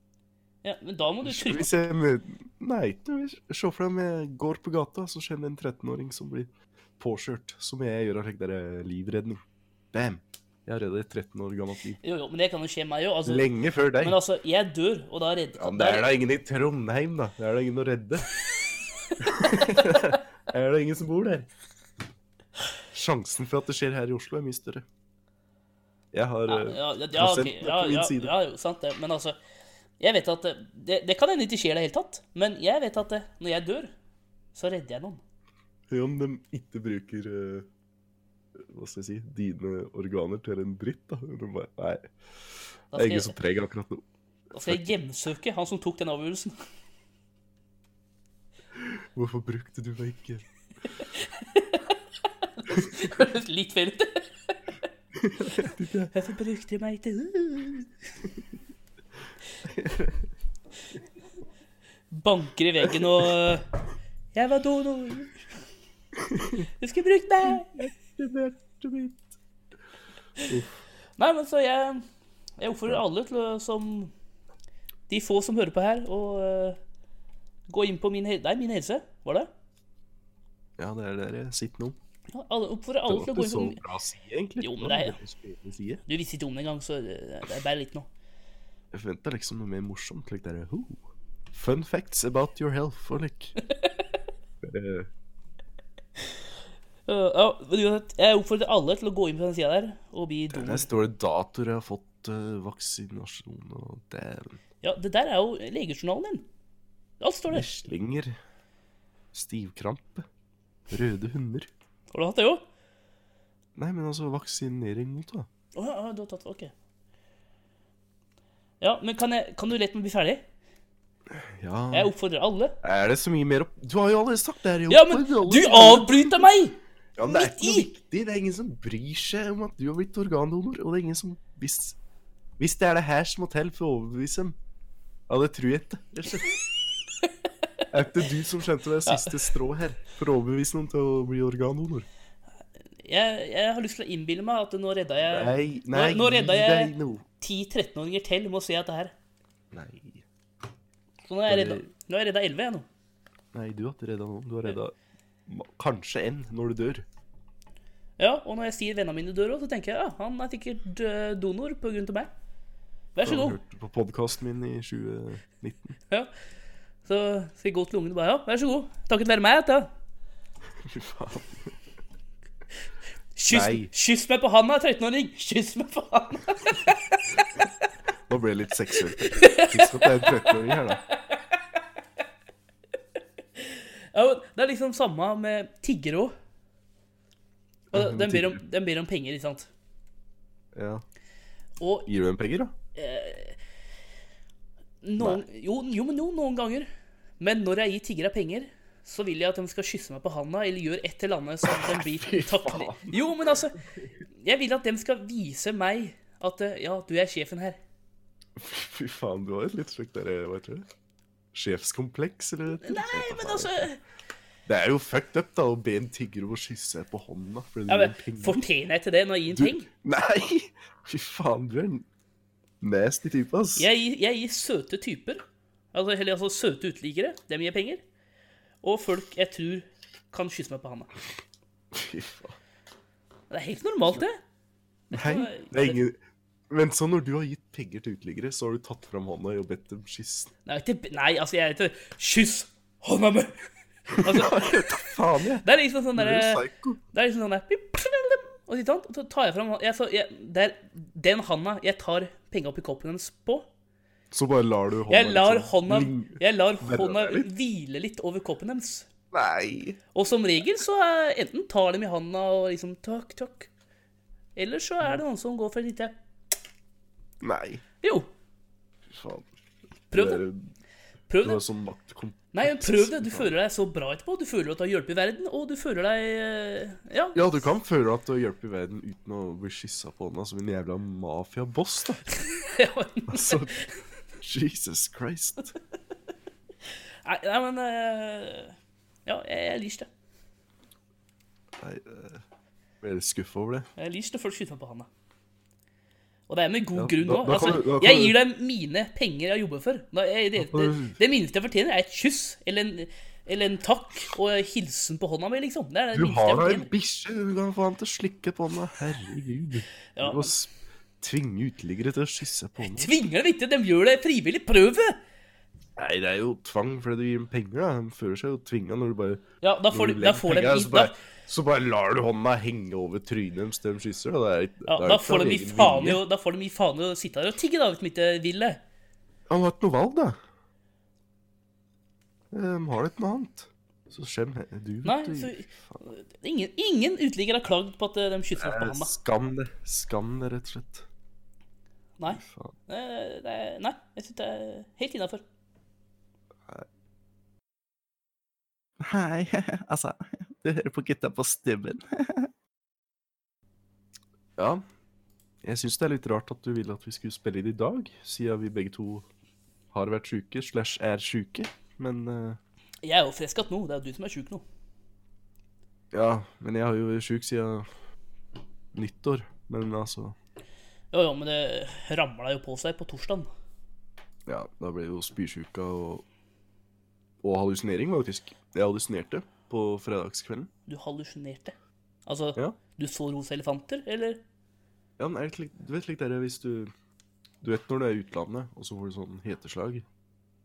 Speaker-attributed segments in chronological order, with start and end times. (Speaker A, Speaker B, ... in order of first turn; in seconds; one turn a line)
Speaker A: 0.6-1.7
Speaker B: 1.2-9.4
Speaker B: 9.9-12.0
Speaker A: 12.0-16.1
Speaker B: 13.2-14.2
Speaker B: 15.6-18.3
Speaker B: 19.2-21.5
Speaker B: 22.9-24.9
Speaker B: 26.1-28.3
Speaker A: 26.5-29.4
Speaker A: 30.0-33.9
Speaker A: 34.5-35.2
Speaker B: 35.9-37.7
Speaker B: 38.6-42.1
Speaker A: 42.9-43.4
Speaker B: 42.9-44.0
Speaker A: 44.5-46.5
Speaker B: 48.7-50.5
Speaker A: 51.0-54.6
Speaker B: 55.2-56.1
Speaker A: 55.5-57.9
Speaker B: 59.6-60.3
Speaker A: 62.1-63.7
Speaker B: 62.8-63.3
Speaker A: 64.3-65.4
Speaker B: 66.2-66.7
Speaker A: 66.8-67.8
Speaker B: 67.5-69.3
Speaker B: 70.5-70.8
Speaker A: 71.2-72.0
Speaker A: 72.6-74.1
Speaker A: 75.1-76.8
Speaker A: 77.7-79.5
Speaker B: 80.8-82.0
Speaker A: 82.3-83.8
Speaker B: 83.1-86.0
Speaker A: 84.6-85.2
Speaker A: 86.1-88.1
Speaker B: 88.9-93.6
Speaker B: 94.6-95.1
Speaker A: 97.1-100.9
Speaker B: 100.5-104.6
Speaker A: 104.8-106.5
Speaker A: 107.2-107.7
Speaker B: 107.5-108.3
Speaker B: 109.3-110.3
Speaker B: 110.9-111.7
Speaker A: 112.1-112.6
Speaker B: 113.8-115.5
Speaker A: 115.8-116.7
Speaker A: 118.8-120.4
Speaker B: 121.3-122.1
Speaker A: 121.9-122.8
Speaker B: 122.8-126.4
Speaker A: 124.9-127.9
Speaker B: 127.2-132.0
Speaker B: 132.6-134.6
Speaker B: 135.3-136.6
Speaker B: 137.9-142.1
Speaker A: 139.1-139.5
Speaker A: 143.0-149.1
Speaker B: 145.3-147.2
Speaker B: 149.7-150.2
Speaker A: 151.3-152.9
Speaker B: 151.5-151.8
Speaker B: 153.5-154.9
Speaker B: 155.5-157.1
Speaker A: 158.2-162.3
Speaker A: 163.2-163.6
Speaker B: 163.2-166.0
Speaker A: 167.1-169.9
Speaker B: 170.8-171.8
Speaker A: 173.4-177.2
Speaker B: 173.5-173.9
Speaker B: 178.3-181.0
Speaker A: 179.2-181.6
Speaker A: 183.6-186.3
Speaker B: 187.9-188.6
Speaker A: 187.9-189.7
Speaker B: 190.7-191.0
Speaker A: 191.8-192.1
Speaker B: 192.1-192.7
Speaker A: 192.9-193.6
Speaker A: 195.0-196.9
Speaker A: 197.4-203.8
Speaker B: 201.6-204.1
Speaker A: 204.3-207.8
Speaker B: 208.6-210.8
Speaker B: 211.5-213.9
Speaker A: 212.8-214.0
Speaker B: 214.7-218.6
Speaker A: 217.9-219.9
Speaker B: 219.5-222.1
Speaker B: 222.8-223.9
Speaker A: 223.8-228.0
Speaker A: 228.8-231.1
Speaker B: 231.9-232.6
Speaker A: 233.5-234.4
Speaker A: 235.1-236.0
Speaker B: 235.1-236.2
Speaker B: 236.7-240.5
Speaker A: 240.7-243.6
Speaker A: 244.1-244.8
Speaker B: 244.1-247.0
Speaker A: 245.6-253.7
Speaker B: 254.3-257.5
Speaker A: 255.1-259.1
Speaker B: 259.3-260.0
Speaker A: 260.1-263.7
Speaker A: 264.6-266.1
Speaker B: 267.4-267.8
Speaker A: 268.0-268.3
Speaker B: 269.1-269.5
Speaker A: 270.1-270.5
Speaker B: 270.1-270.6
Speaker A: 271.3-271.6
Speaker B: 271.4-273.6
Speaker A: 272.5-277.6
Speaker B: 277.4-282.3
Speaker A: 282.4-283.9
Speaker B: 283.3-283.8
Speaker B: 284.4-285.8
Speaker A: 287.2-288.8
Speaker A: 289.3-290.1
Speaker B: 291.8-292.4
Speaker B: 293.0-293.9
Speaker A: 294.0-295.1
Speaker A: 296.5-306.9
Speaker B: 296.9-298.4
Speaker B: 300.6-301.2
Speaker B: 306.1-313.1
Speaker A: 310.2-310.5
Speaker A: 312.8-315.2
Speaker B: 316.0-326.2
Speaker A: 319.6-321.2
Speaker A: 324.9-328.8
Speaker B: 329.5-330.4
Speaker B: 332.5-336.0
Speaker A: 335.0-339.1
Speaker B: 338.6-341.1
Speaker A: 342.2-345.4
Speaker B: 342.3-342.8
Speaker B: 349.0-352.5
Speaker B: 354.6-354.8
Speaker B: 355.6-359.3
Speaker B: 359.9-362.6
Speaker A: 363.0-364.6
Speaker B: 366.1-367.9
Speaker B: 368.9-370.4
Speaker A: 371.1-373.5
Speaker B: 374.5-376.2
Speaker B: 377.4-380.7
Speaker A: 380.9-381.8
Speaker A: 382.3-384.4
Speaker B: 385.2-386.9
Speaker B: 387.6-390.1